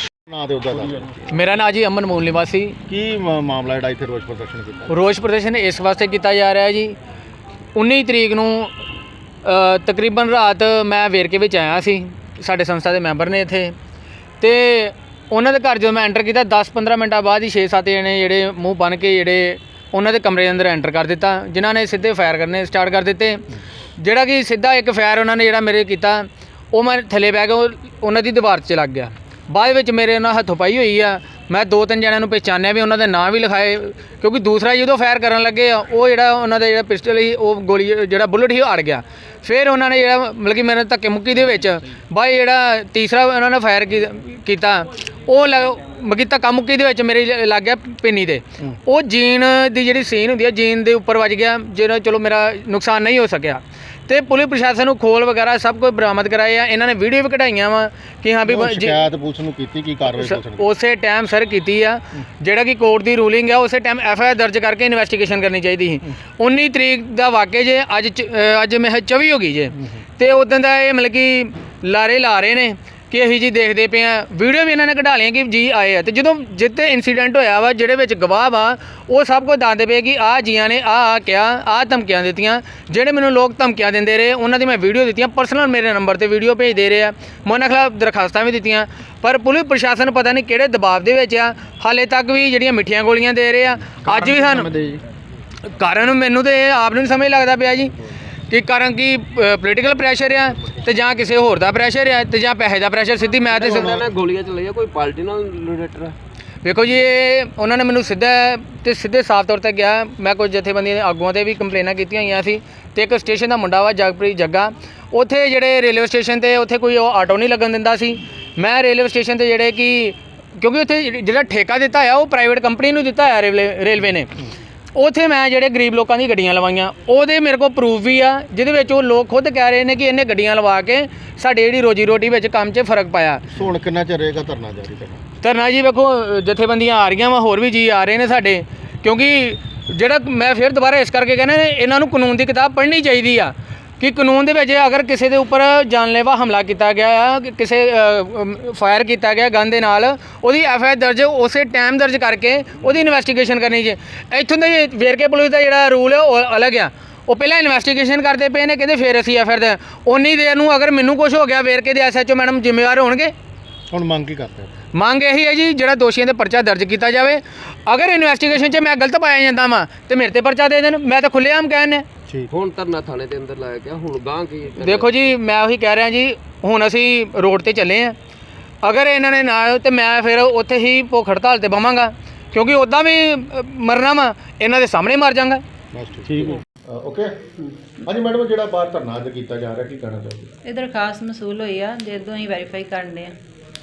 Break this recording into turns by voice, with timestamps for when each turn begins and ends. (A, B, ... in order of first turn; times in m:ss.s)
0:00.3-0:01.3 A
0:01.3-0:02.8 B
0:02.9-0:05.0 A
0:04.9-0:06.9 B
0:07.8-0:08.7 B
0:09.5-0:13.8 B
0:14.4-0:23.4 B
0:24.0-0:59.0 B
0:35.7-0:36.1 C
0:58.4-1:00.7 A
1:00.3-1:34.7 B
1:34.1-1:35.0 A
1:35.8-1:37.9 B
1:38.5-1:44.0 B
1:43.5-1:44.1 A
1:43.6-1:46.2 C
1:46.6-2:04.3 B
2:05.0-2:13.4 B
2:13.5-2:15.2 A
2:15.4-2:43.3 B
2:43.9-2:44.7 A
2:44.9-2:52.0 B
2:52.5-2:55.4 C
2:54.8-2:58.2 B
2:58.8-3:05.6 B
3:05.9-3:07.4 A
3:08.0-3:10.5 A
3:10.6-3:13.4 D